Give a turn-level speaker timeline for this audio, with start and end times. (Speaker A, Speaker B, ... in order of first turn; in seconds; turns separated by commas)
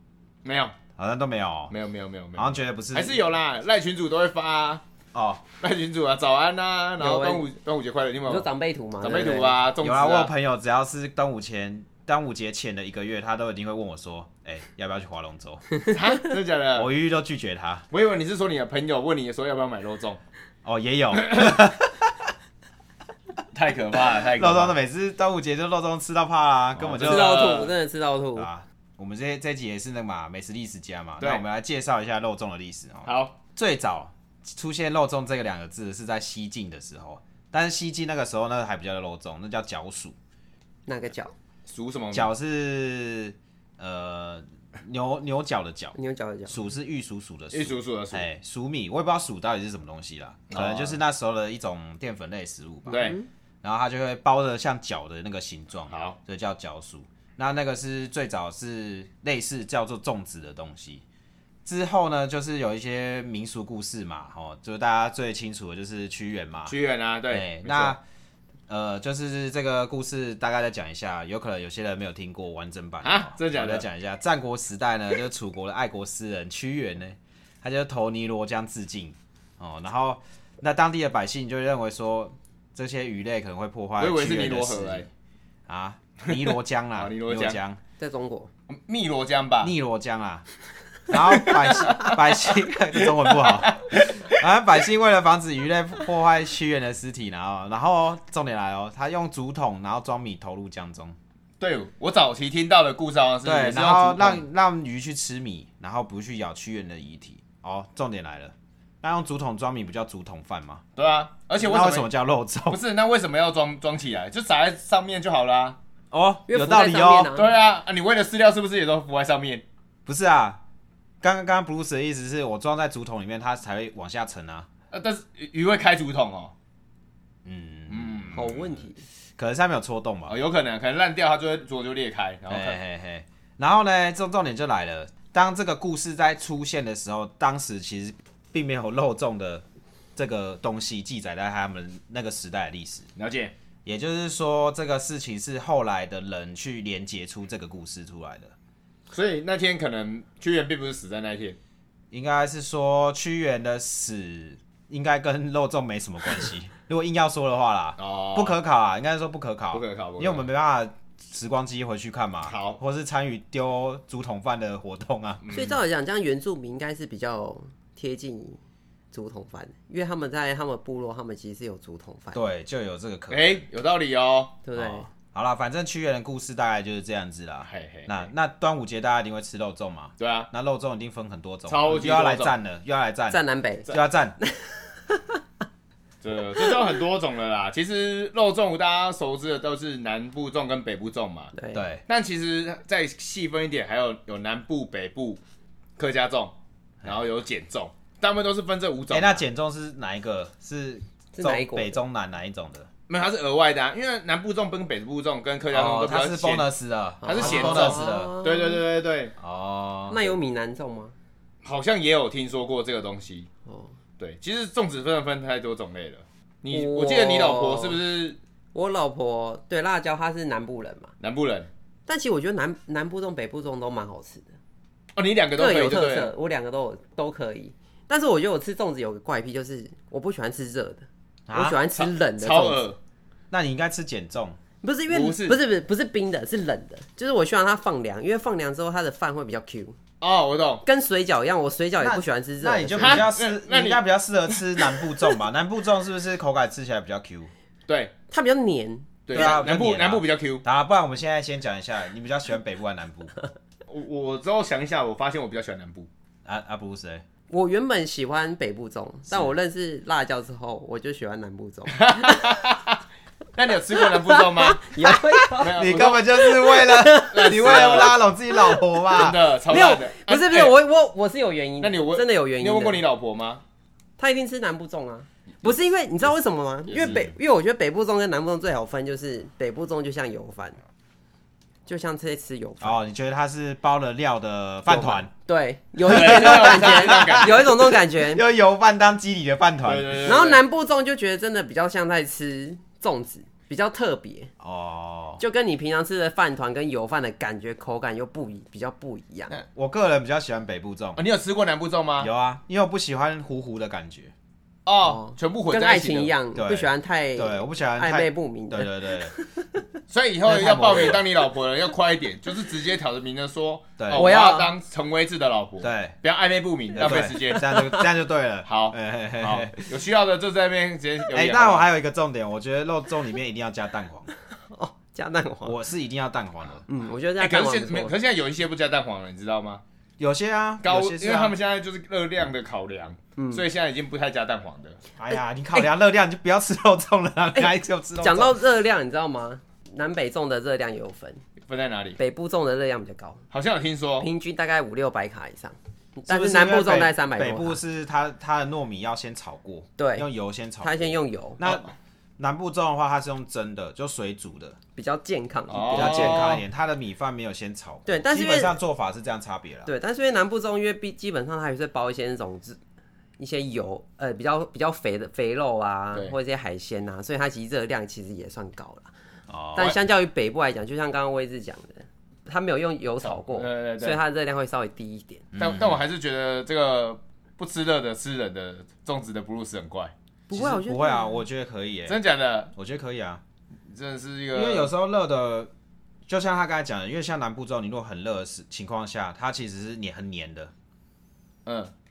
Speaker A: 0.4-0.8, Speaker B: 1.0-1.7, Speaker A: 1.7-4.8, Speaker B: 2.4-3.2, Speaker B: 5.1-5.5, Speaker A: 5.6-8.5, Speaker C: 7.0-7.5, Speaker C: 8.3-9.6, Speaker A: 9.0-10.3, Speaker B: 9.8-15.7, Speaker A: 15.9-16.9, Speaker B: 16.8-17.9, Speaker A: 17.9-20.2, Speaker B: 20.6-22.3, Speaker A: 21.1-21.6, Speaker A: 23.5-24.8, Speaker B: 24.3-27.7, Speaker A: 26.8-27.7, Speaker C: 27.0-28.5, Speaker B: 28.4-40.2, Speaker A: 33.1-33.4, Speaker C: 40.9-41.3, Speaker A: 41.7-42.3, Speaker B: 42.1-46.0, Speaker C: 46.0-46.6, Speaker B: 46.5-61.0, Speaker A: 47.5-48.3, Speaker A: 50.5-51.0, Speaker A: 52.9-53.2, Speaker C: 52.9-53.3, Speaker A: 55.9-56.2, Speaker B: 61.6-66.8, Speaker A: 66.7-68.0, Speaker B: 67.3-68.0, Speaker B: 68.7-85.1, Speaker A: 73.0-73.8, Speaker A: 84.0-85.1, Speaker B: 85.7-87.8, Speaker A: 86.2-87.6, Speaker C: 88.0-88.5, Speaker A: 88.7-89.7, Speaker B: 89.6-90.5, Speaker B: 91.1-101.2, Speaker A: 91.2-94.4, Speaker A: 101.6-104.4, Speaker B: 103.4-110.8, Speaker A: 111.0-112.1, Speaker B: 111.6-112.8, Speaker A: 112.7-115.8, Speaker B: 116.1-117.3, Speaker C: 116.5-117.5, Speaker A: 117.3-119.6, Speaker B: 120.1-120.6, Speaker B: 121.2-124.7, Speaker A: 124.9-126.5, Speaker B: 127.5-128.8, Speaker A: 127.9-128.6, Speaker C: 128.3-129.0, Speaker B: 129.4-130.3, Speaker A: 130.3-132.8, Speaker B: 132.5-139.7, Speaker B: 140.2-143.1, Speaker A: 143.2-143.5, Speaker B: 143.9-148.6, Speaker A: 149.1-151.6, Speaker B: 152.1-165.4, Speaker A: 158.0-158.6, Speaker A: 159.7-160.5, Speaker A: 162.5-162.8, Speaker A: 165.4-165.8, Speaker C: 165.5-168.6, Speaker C: 169.1-172.4, Speaker B: 172.3-173.6, Speaker A: 173.3-174.6, Speaker C: 174.7-175.1, Speaker B: 174.8-183.4, Speaker A: 177.7-178.3, Speaker A: 180.2-180.5, Speaker A: 181.7-182.6, Speaker C: 183.3-183.9, Speaker B: 183.9-184.4, Speaker C: 184.4-185.4, Speaker A: 186.2-191.5, Speaker C: 191.6-191.8, Speaker B: 191.7-192.0, Speaker A: 192.1-195.4, Speaker A: 196.0-199.4, Speaker B: 199.1-202.9, Speaker C: 201.4-202.0, Speaker A: 203.1-206.7, Speaker B: 205.7-208.3, Speaker C: 207.2-208.8, Speaker A: 207.2-209.3, Speaker B: 209.4-210.3, Speaker C: 210.1-211.2, Speaker A: 211.6-213.5, Speaker C: 213.7-213.9, Speaker A: 214.2-218.4, Speaker C: 216.7-218.0, Speaker C: 218.7-221.1, Speaker A: 221.2-221.7, Speaker C: 222.1-224.5, Speaker A: 225.2-226.3, Speaker C: 225.6-232.8, Speaker B: 231.5-231.8, Speaker A: 231.9-233.0, Speaker B: 233.5-234.6, Speaker C: 234.8-240.0, Speaker A: 235.1-235.6, Speaker A: 240.2-240.8, Speaker C: 240.8-243.3, Speaker B: 242.0-247.5, Speaker A: 243.0-245.0, Speaker A: 247.9-248.1, Speaker C: 248.3-249.6, Speaker A: 249.3-250.6, Speaker B: 249.3-253.3, Speaker A: 253.9-256.1, Speaker B: 256.4-257.2, Speaker C: 257.5-262.6, Speaker A: 261.9-263.0, Speaker A: 263.6-264.9, Speaker C: 264.2-268.1, Speaker B: 265.6-269.4, Speaker A: 265.6-266.2, Speaker A: 267.3-268.2, Speaker A: 269.1-270.8, Speaker C: 269.7-273.0, Speaker A: 271.8-273.6, Speaker C: 274.2-280.8, Speaker A: 276.9-277.2, Speaker B: 277.1-277.3, Speaker C: 281.9-283.0, Speaker B: 282.8-285.3, Speaker C: 284.9-288.4, Speaker B: 286.0-290.4, Speaker A: 286.1-287.8, Speaker A: 289.8-290.6, Speaker C: 290.2-294.5, Speaker B: 294.6-295.4, Speaker C: 295.4-299.6, Speaker B: 299.7-301.2, Speaker A: 301.2-302.3, Speaker B: 302.2-304.3, Speaker A: 304.9-306.3, Speaker C: 305.0-309.7, Speaker B: 306.6-309.3, Speaker A: 310.1-318.1, Speaker B: 310.5-311.2, Speaker B: 314.0-314.3, Speaker C: 314.1-314.7, Speaker B: 315.8-316.2, Speaker B: 317.0-320.0, Speaker A: 318.6-321.9, Speaker B: 321.3-324.3, Speaker C: 324.7-325.8, Speaker B: 325.6-326.9, Speaker C: 326.9-328.1, Speaker A: 327.4-329.8, Speaker B: 330.2-331.6, Speaker A: 330.8-335.0, Speaker C: 333.4-333.6, Speaker B: 335.2-338.6, Speaker C: 337.6-341.4, Speaker A: 341.7-342.2, Speaker C: 342.2-343.4, Speaker A: 343.5-344.3, Speaker C: 344.2-347.8, Speaker B: 346.3-354.8, Speaker C: 350.0-350.3, Speaker C: 350.8-351.6, Speaker C: 355.0-356.5, Speaker A: 355.7-356.7, Speaker B: 355.9-359.9, Speaker C: 358.1-358.8, Speaker C: 359.9-362.8, Speaker C: 363.4-369.1, Speaker B: 369.5-369.9, Speaker C: 369.8-375.4, Speaker A: 373.2-374.2, Speaker B: 375.5-376.0, Speaker A: 375.6-380.1, Speaker C: 380.5-381.4, Speaker B: 380.5-382.2, Speaker A: 382.1-382.7, Speaker B: 382.8-383.4, Speaker A: 383.9-384.9, Speaker B: 384.5-385.7, Speaker B: 386.3-390.7, Speaker A: 391.7-391.9